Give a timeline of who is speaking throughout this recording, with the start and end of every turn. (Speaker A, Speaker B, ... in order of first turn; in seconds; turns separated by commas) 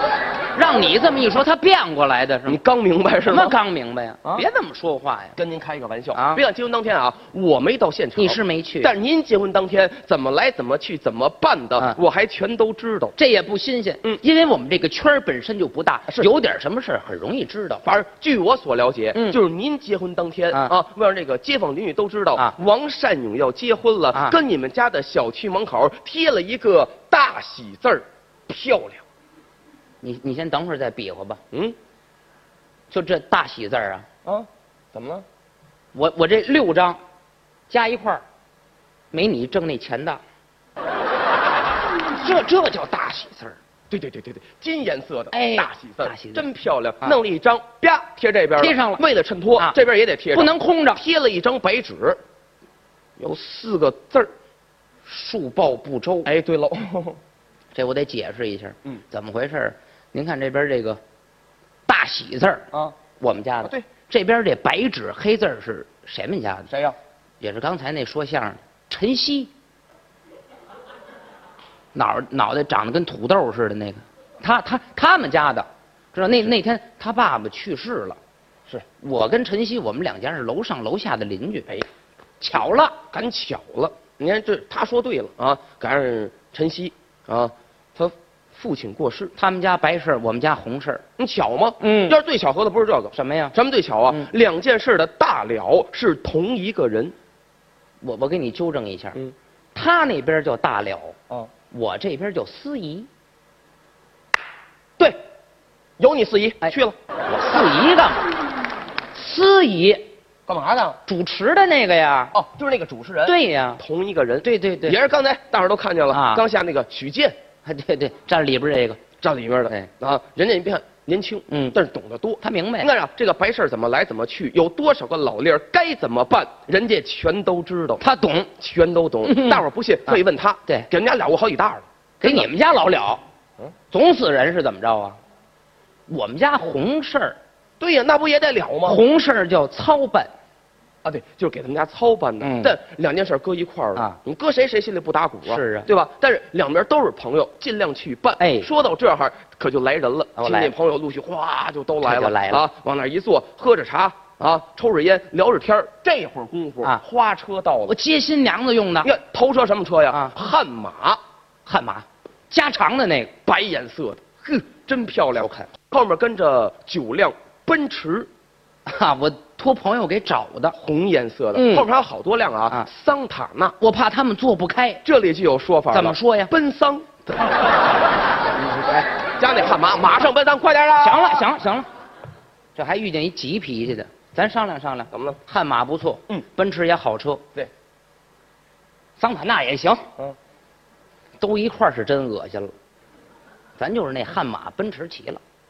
Speaker A: 0.6-2.6, Speaker B: 2.5-3.6, Speaker A: 3.3-5.4, Speaker B: 5.4-13.2, Speaker A: 6.1-6.4, Speaker A: 8.2-8.9, Speaker A: 13.2-17.8, Speaker B: 17.9-29.0, Speaker A: 30.0-31.4, Speaker A: 32.9-34.1, Speaker B: 34.2-35.2, Speaker A: 36.0-37.0, Speaker A: 37.7-38.2, Speaker A: 39.1-40.2, Speaker A: 42.2-43.6, Speaker B: 43.9-52.2, Speaker A: 45.3-46.5, Speaker A: 48.6-49.0, Speaker A: 50.3-51.0, Speaker B: 53.2-54.3, Speaker A: 55.1-56.3, Speaker B: 56.2-57.2, Speaker A: 57.7-61.0, Speaker A: 61.9-62.7, Speaker A: 63.2-66.7, Speaker B: 66.7-67.0, Speaker A: 67.4-69.5, Speaker A: 72.0-78.2, Speaker A: 79.0-81.7, Speaker A: 82.4-83.0, Speaker B: 83.1-89.3, Speaker A: 89.4-91.0, Speaker B: 91.2-97.2, Speaker A: 91.8-92.2, Speaker A: 93.1-93.5, Speaker A: 98.0-99.2, Speaker A: 99.8-101.2, Speaker A: 101.7-103.1, Speaker B: 106.0-107.0, Speaker A: 107.3-108.2, Speaker A: 109.1-110.1, Speaker B: 110.5-111.0, Speaker A: 111.1-112.3, Speaker B: 112.3-117.4, Speaker A: 113.2-113.8, Speaker A: 114.4-115.0, Speaker A: 116.1-116.4, Speaker A: 117.7-119.0, Speaker B: 119.2-128.0, Speaker A: 121.5-121.8, Speaker A: 122.4-122.9, Speaker A: 128.0-128.5, Speaker B: 128.6-132.5, Speaker A: 129.2-130.9, Speaker A: 132.2-133.2, Speaker A: 133.9-135.2, Speaker A: 136.1-137.4, Speaker B: 137.8-139.0, Speaker A: 138.8-140.3, Speaker B: 141.1-157.9, Speaker A: 142.4-142.8, Speaker A: 145.5-145.9, Speaker A: 148.4-148.7, Speaker A: 150.4-150.7, Speaker A: 152.0-152.6, Speaker A: 157.9-159.1, Speaker B: 159.0-161.2, Speaker A: 161.7-163.3, Speaker B: 163.5-168.3, Speaker A: 165.4-165.7, Speaker A: 168.9-170.8, Speaker B: 170.7-173.8, Speaker A: 171.6-171.9, Speaker A: 173.8-175.0, Speaker B: 175.0-177.2, Speaker A: 175.9-176.5, Speaker A: 178.5-179.1, Speaker B: 179.4-181.4, Speaker A: 181.0-181.9, Speaker A: 182.8-187.4, Speaker B: 185.1-185.4, Speaker A: 189.2-190.1, Speaker A: 191.4-192.7, Speaker A: 193.8-195.4